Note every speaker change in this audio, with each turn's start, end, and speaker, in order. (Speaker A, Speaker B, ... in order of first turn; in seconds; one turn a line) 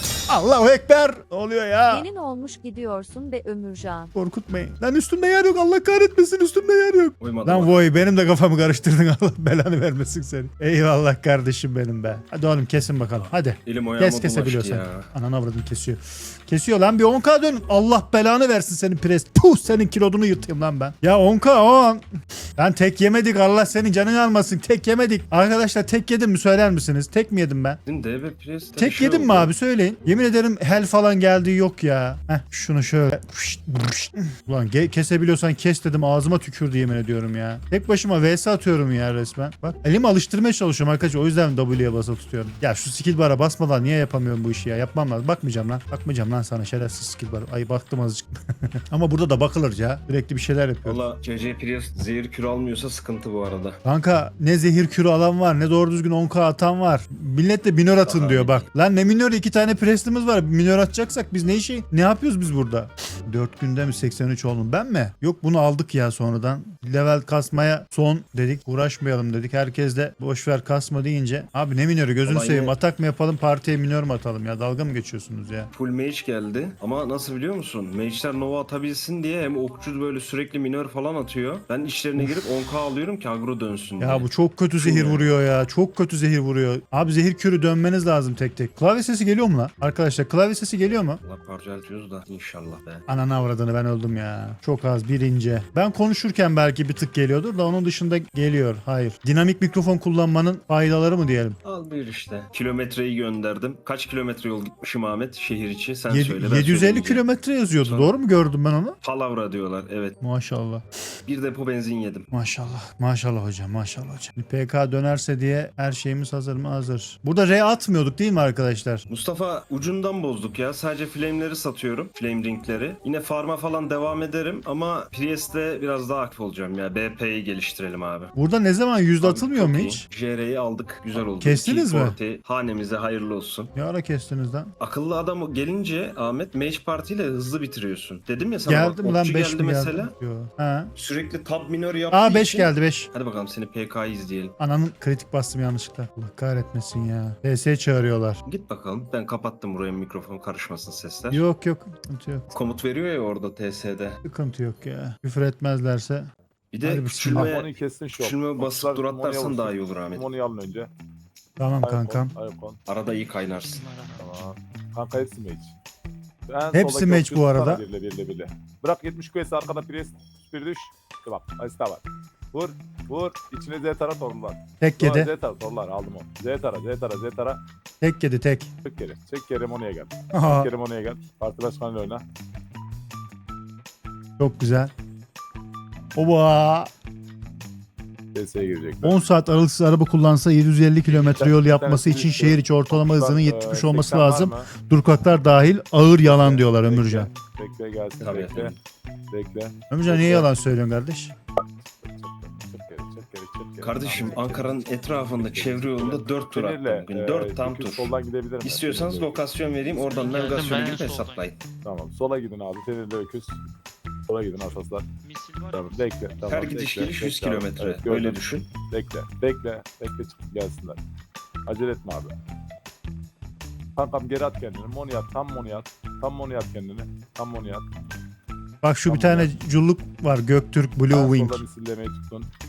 Speaker A: 0.3-2.1
Speaker B: 1.9-4.1
Speaker A: 4.1-22.0
Speaker C: 7.2-7.9
Speaker C: 13.7-15.1
Speaker A: 22.6-27.8
Speaker C: 27.9-29.5
Speaker A: 28.8-51.0
Speaker C: 50.8-53.8
Speaker A: 53.9-75.7
Speaker C: 58.0-58.7
Speaker C: 72.3-72.8
Speaker C: 75.7-85.3
Speaker A: 84.0-91.2
Speaker C: 91.2-93.0
Speaker A: 93.1-101.6
Speaker C: 101.6-107.2
Speaker A: 106.1-109.0
Speaker C: 107.8-108.2
Speaker C: 109.0-110.2
Speaker A: 110.2-110.8
Speaker C: 111.2-112.3
Speaker A: 112.3-119.0
Speaker C: 119.1-128.3
Speaker A: 128.3-130.1
Speaker C: 129.2-133.7
Speaker A: 131.4-132.2
Speaker A: 133.8-134.7
Speaker C: 134.8-140.1
Speaker A: 138.7-140.9
Speaker C: 140.9-144.5
Speaker A: 142.1-143.1
Speaker A: 144.6-148.4
Speaker C: 148.4-151.4
Speaker A: 151.3-152.5
Speaker C: 152.5-154.2
Speaker A: 154.2-156.3
Speaker C: 156.7-160.3
Speaker A: 156.8-157.5
Speaker D: 157.3-160.9
Speaker A: 161.6-162.3
Speaker D: 161.8-162.8
Speaker C: 162.9-163.8
Speaker E: 163.1-164.5
Speaker D: 164.2-165.7
Speaker D: 166.5-177.6
Speaker A: 166.7-167.8
Speaker A: 174.8-175.3
Speaker A: 178.0-178.7
Speaker D: 178.8-182.2
Speaker A: 180.3-180.7
Speaker A: 184.4-184.9
Speaker A: 186.2-186.9
Speaker D: 188.3-189.2
Speaker A: 189.0-197.3
Speaker D: 191.1-194.7
Speaker D: 196.2-198.8
Speaker C: 198.2-198.8
Speaker D: 199.3-200.5
Speaker A: 199.9-201.3
Speaker D: 201.6-209.5
Speaker C: 203.8-211.6
Speaker E: 209.9-211.5
Speaker D: 210.0-210.7
Speaker D: 211.8-213.6
Speaker D: 214.3-215.1
Speaker E: 215.2-216.3
Speaker D: 215.7-221.0
Speaker C: 216.4-218.7
Speaker D: 221.7-222.3
Speaker D: 224.0-227.8
Speaker A: 228.8-231.6
Speaker D: 229.1-229.5
Speaker D: 231.1-232.5